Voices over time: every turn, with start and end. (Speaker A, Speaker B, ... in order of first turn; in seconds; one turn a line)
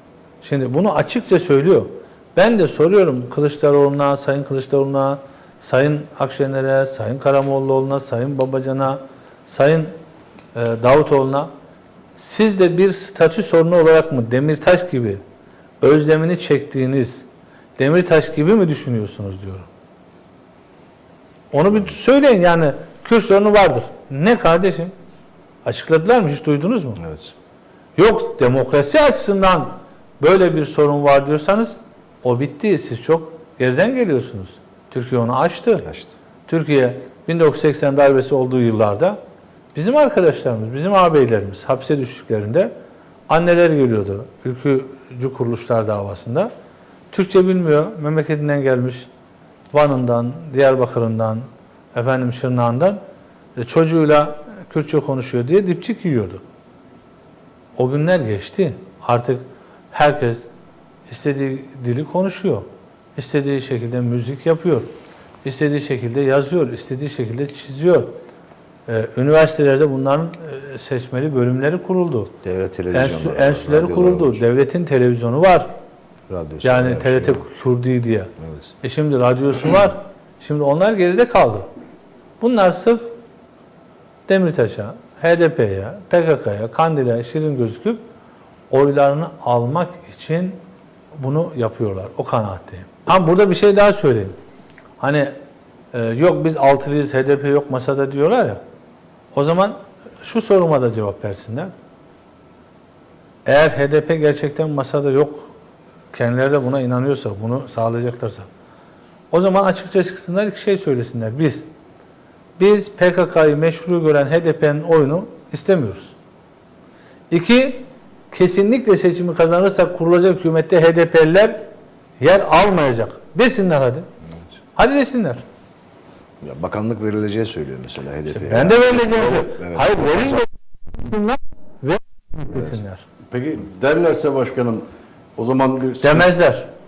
Speaker A: 0.4-9.9
Speaker A: 10.5-11.5
Speaker A: 12.2-15.2
Speaker A: 15.8-17.2
Speaker A: 17.8-19.7
Speaker A: 21.5-24.9
Speaker A: 25.6-27.0
Speaker B: 27.0-27.3
Speaker A: 28.0-35.9
Speaker B: 35.8-36.1
Speaker A: 36.5-39.2
Speaker A: 39.7-42.7
Speaker A: 43.3-46.5
Speaker A: 47.1-49.1
Speaker A: 49.7-53.0
Speaker A: 53.5-56.4
Speaker A: 57.8-60.4
Speaker A: 61.1-64.9
Speaker A: 65.4-68.2
Speaker A: 68.9-72.3
Speaker B: 72.4-74.4
Speaker A: 72.9-75.7
Speaker B: 76.3-77.4
Speaker A: 76.6-78.3
Speaker B: 78.4-78.7
Speaker A: 78.8-81.7
Speaker A: 82.4-83.0
Speaker A: 84.3-88.0
Speaker A: 88.7-90.6
Speaker A: 91.2-94.3
Speaker A: 95.0-95.3
Speaker A: 95.9-98.6
Speaker A: 99.3-101.7
Speaker A: 103.5-105.5
Speaker A: 106.1-108.5
Speaker A: 109.3-111.7
Speaker A: 112.6-116.1
Speaker A: 117.3-121.7
Speaker A: 122.2-124.0
Speaker A: 124.8-125.4
Speaker B: 126.4-130.4
Speaker A: 128.3-133.0
Speaker C: 133.3-134.8
Speaker C: 135.4-136.3
Speaker A: 136.0-136.7